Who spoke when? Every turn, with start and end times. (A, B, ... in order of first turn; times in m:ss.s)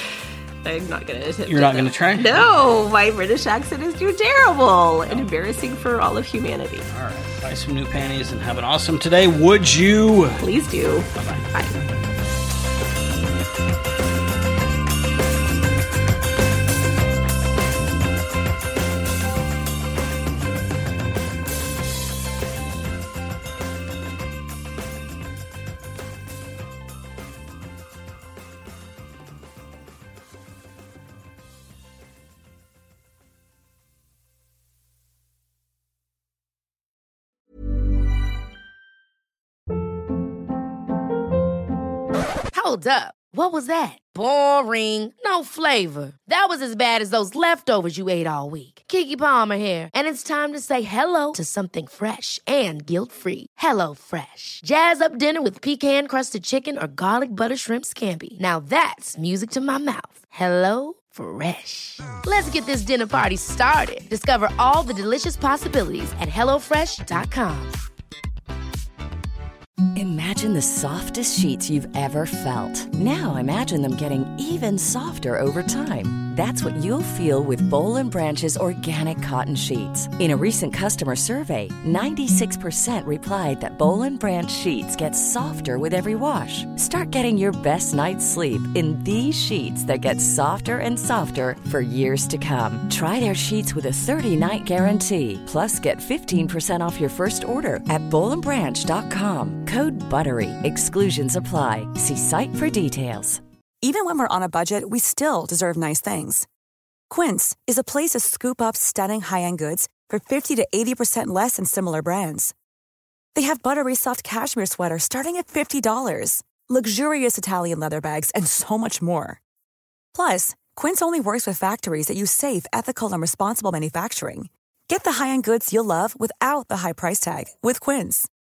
0:00.6-0:06.8 A
0:01.5-0:02.4 B
0:06.9-0:10.4 B
0:10.4-0:11.8 A
0:11.1-0:11.5 B
0:42.5-1:07.8 C
1:10.0-1:43.4 D
1:43.8-1:46.5 E
1:47.1-1:52.5 E
1:53.3-1:59.4 E
2:00.1-2:08.3 E